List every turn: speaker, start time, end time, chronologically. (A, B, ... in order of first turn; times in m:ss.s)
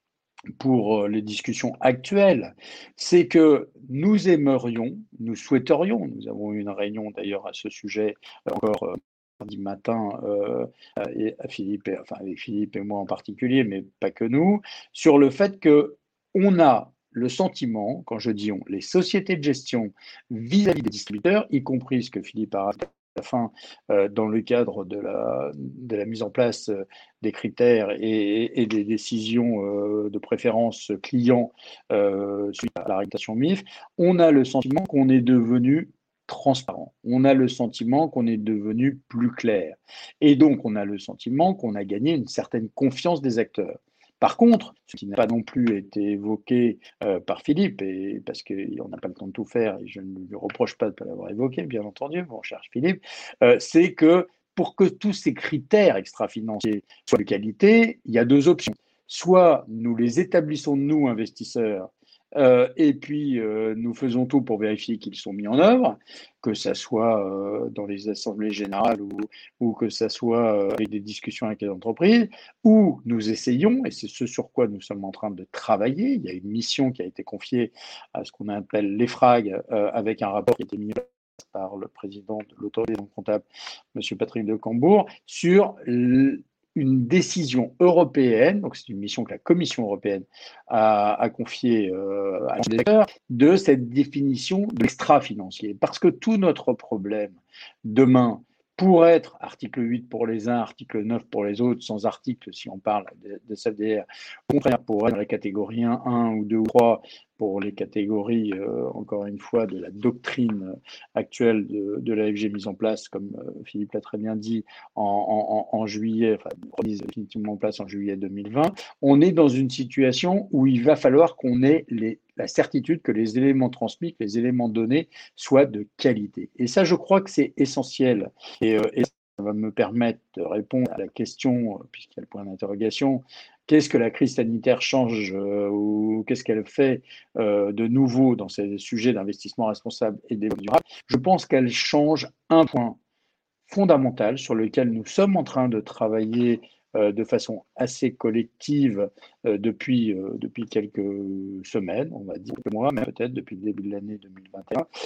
0:00.6-2:23.0 A
2:23.7-2:34.8 A